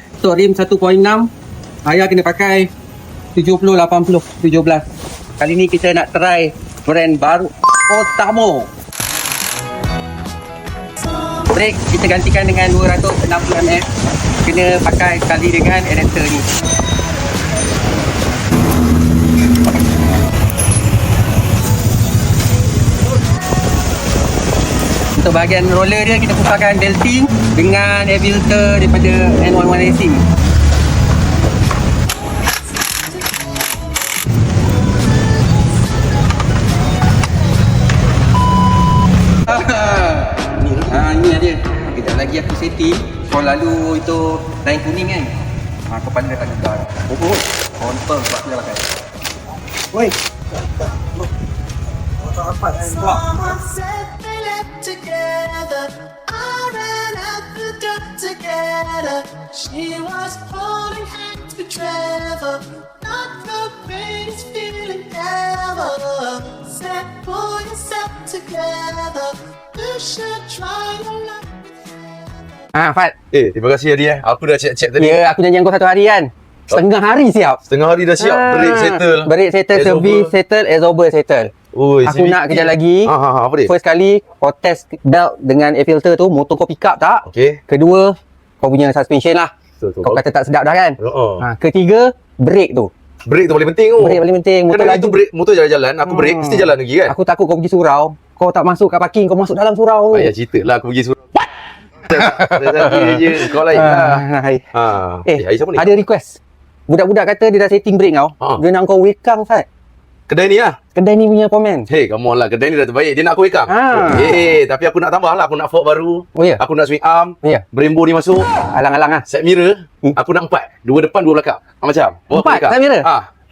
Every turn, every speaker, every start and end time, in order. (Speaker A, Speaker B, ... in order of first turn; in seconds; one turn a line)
Speaker A: 0.2-1.3
Speaker A: 1.8-2.7
Speaker A: 3.4-4.8
Speaker A: 5.4-8.7
Speaker A: 11.5-13.9
Speaker A: 14.4-16.5
Speaker A: 25.1-30.2
Speaker A: 39.5-45.4
Speaker B: 40.6-40.9
Speaker A: 45.9-48.8
Speaker A: 52.3-53.3
Speaker C: 52.9-72.2
Speaker A: 72.7-73.2
Speaker B: 73.3-75.2
Speaker A: 75.0-77.6
Speaker B: 77.7-80.3
Speaker A: 78.2-81.5
Speaker B: 81.7-83.7
Speaker A: 82.0-83.1
Speaker A: 83.7-89.5
Speaker B: 87.3-87.6
Speaker B: 89.8-90.2
Speaker A: 90.0-92.9
Speaker B: 91.0-91.4
Speaker B: 93.3-97.1
Speaker A: 94.0-95.2
Speaker A: 96.1-100.3
Speaker B: 100.1-101.5
Speaker B: 102.1-105.9
Speaker A: 102.1-104.7
Speaker A: 105.3-109.7
Speaker B: 110.3-110.8
Speaker A: 111.0-111.9
Speaker B: 111.9-118.5
Speaker A: 113.7-114.3
Speaker A: 116.4-116.6
Speaker A: 118.6-119.3
Speaker B: 119.3-123.3
Speaker A: 122.3-123.1